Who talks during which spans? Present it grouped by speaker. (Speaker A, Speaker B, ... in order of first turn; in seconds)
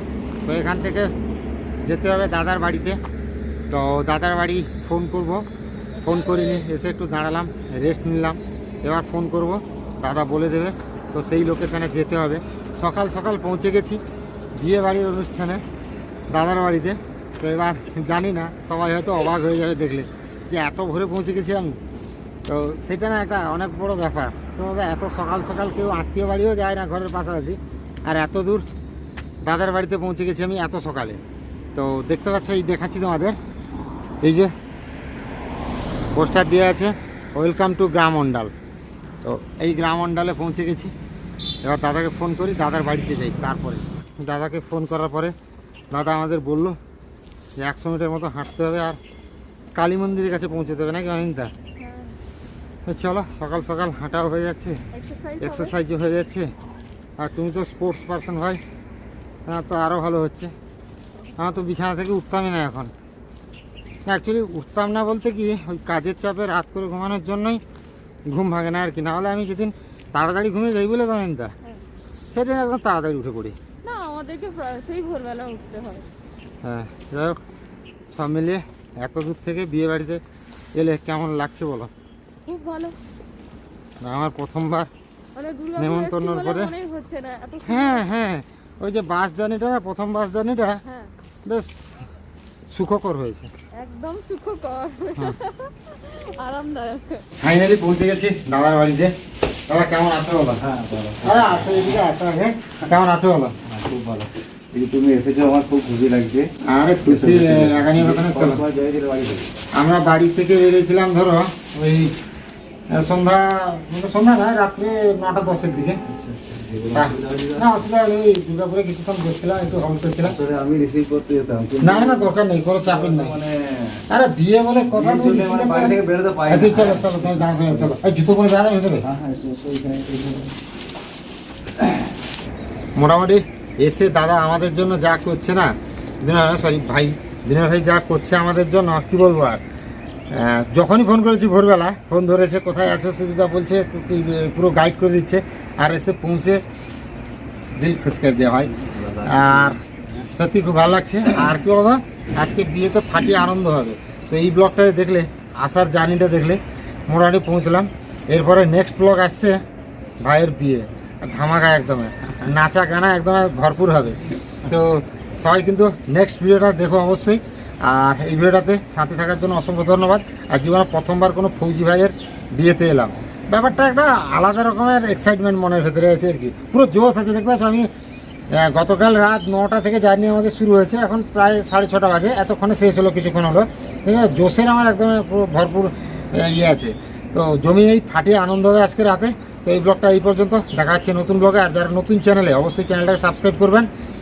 Speaker A: 0.5-1.1, 1.9-3.0, 3.7-5.4, 6.0-14.0, 14.6-15.6, 16.3-21.8, 22.5-28.7, 29.4-31.2, 31.8-33.4, 34.2-34.5, 36.1-38.5, 39.2-40.9, 41.6-45.3, 45.9-46.8, 47.6-49.0, 49.8-51.5, 52.9-54.8, 55.4-56.5, 57.2-58.6, 59.5-60.5, 61.4-62.9, 64.1-67.6, 68.3-71.5, 72.3-73.6, 76.6-77.4, 78.1-80.2, 80.8-81.9, 84.0-84.9, 85.8-86.7, 87.7-90.8, 91.5-91.8, 92.7-93.5, 97.4-99.2, 99.7-100.6, 101.2-103.5, 106.7-108.6, 109.7-112.2, 112.9-116.0, 116.9-120.4, 121.8-123.4, 124.1-129.1, 133.0-139.6, 140.3-146.6, 147.8-149.8, 150.3-159.6, 160.2-177.9, 178.5-193.9
Speaker B: 51.8-52.2, 54.9-55.7, 73.8-76.1, 82.5-83.0, 85.3-88.0, 90.8-91.1, 93.8-97.3
Speaker C: 100.6-101.8, 103.7-106.5, 107.0-109.5, 116.0-117.8, 120.2-122.3, 122.8-124.0, 124.8-128.0, 129.0-130.6, 148.8-149.9